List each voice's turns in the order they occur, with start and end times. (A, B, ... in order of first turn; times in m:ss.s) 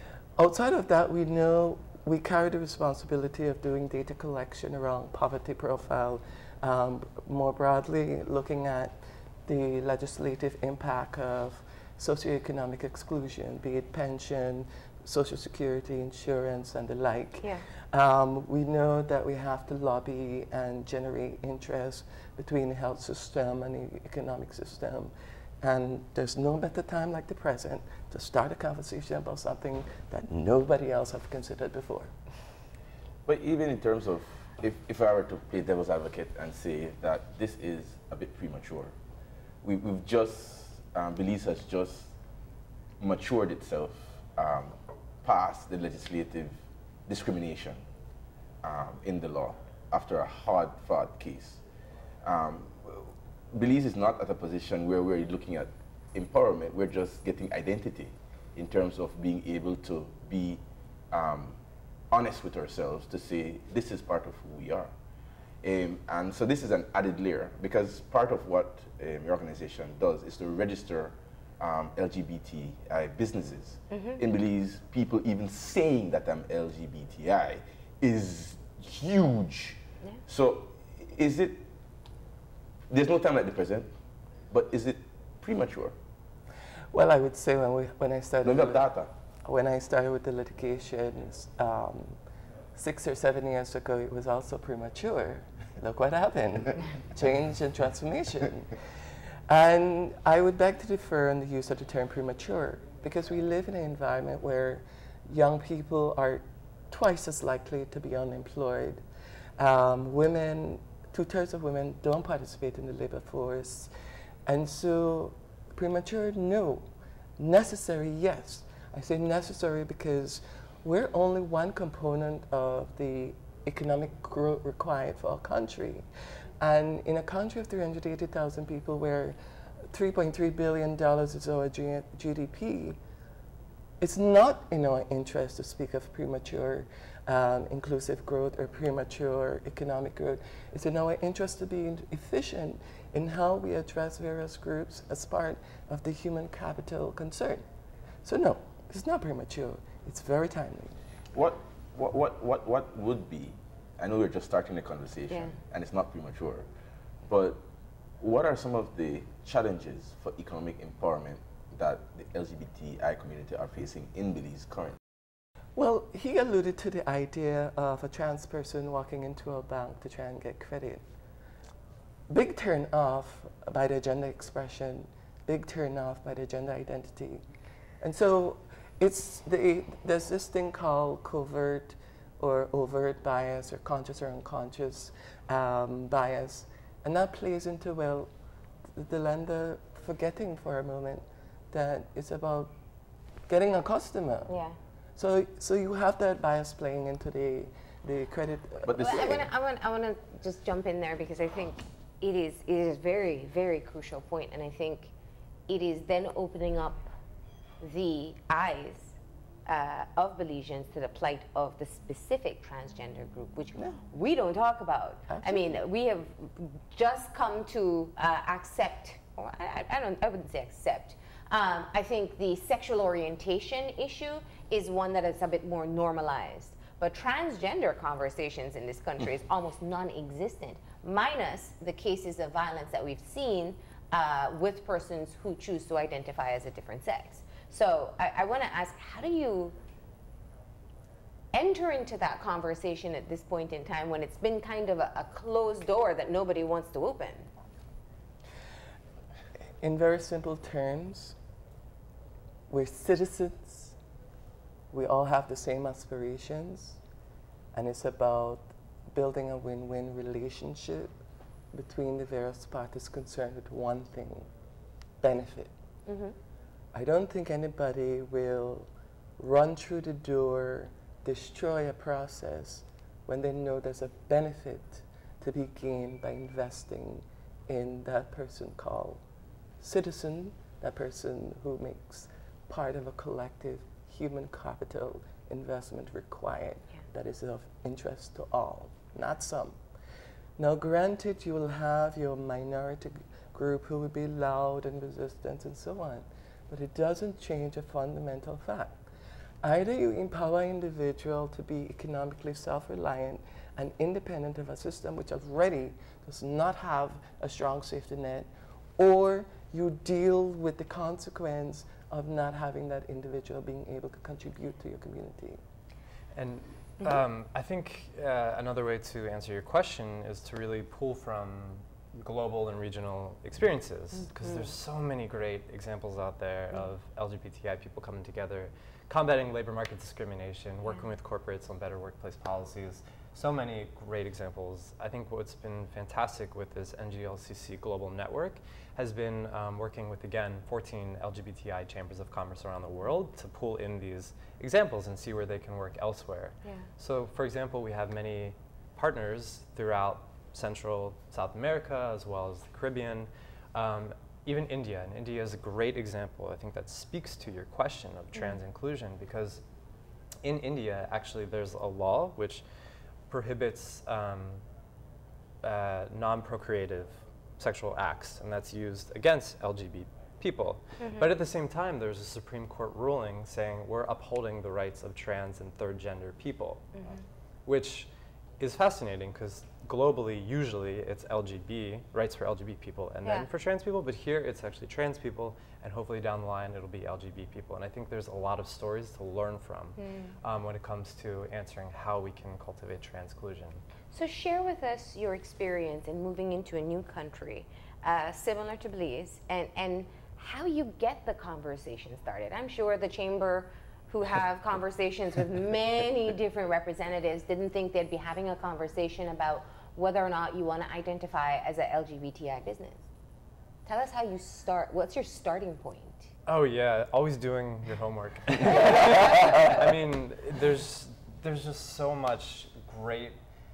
0:00.4-0:32.1 A
0:33.3-0:38.9 B
0:39.6-0:42.1 B
0:43.0-0:47.8 B
0:48.6-0:51.6 B
0:52.2-1:01.6 B
1:02.1-1:04.9 B
1:05.6-1:21.6 B
1:13.9-1:14.2 C
1:22.9-1:23.9 B
1:24.5-1:26.0 B
1:26.9-1:28.9 A
1:28.4-1:29.1 B
1:29.4-1:32.2 A
1:32.7-1:49.0 A
1:49.6-1:53.9 A
1:54.5-1:56.9 A
1:57.4-2:06.1 A
2:06.6-2:09.4 A
2:09.9-2:13.0 A
2:14.0-2:27.6 A
2:28.2-2:31.0 A
2:31.3-2:36.7 B
2:37.3-2:37.6 B
2:38.2-2:45.0 B
2:45.8-2:51.0 A
2:52.3-2:57.4 A
2:58.0-3:08.3 A
3:08.9-3:12.7 A
3:13.5-3:14.5 A
3:14.5-3:14.8 C
3:15.2-3:19.4 A
3:18.9-3:19.5 B
3:19.0-3:25.1 C
3:25.7-3:27.0 C
3:27.8-3:59.8 C
3:35.3-3:35.8 A
4:01.5-4:07.5 C
4:09.8-4:11.4 A
4:12.7-4:14.0 A
4:14.9-4:17.0 A
4:17.7-4:21.1 A
4:21.7-4:24.5 A
4:25.2-4:25.7 A
4:26.1-4:26.4 C
4:26.9-4:39.2 A
4:39.8-4:49.8 A
4:50.6-4:59.0 A
4:59.6-5:15.6 A
5:16.4-5:59.6 D
6:00.4-6:02.6 D
6:03.3-6:04.6 D
6:05.6-6:16.9 D
6:11.0-6:11.3 C
6:17.0-6:17.2 C
6:17.7-6:33.8 D
6:30.0-6:30.4 C
6:34.1-6:53.0 C
6:53.9-6:56.3 C
6:56.5-7:03.4 D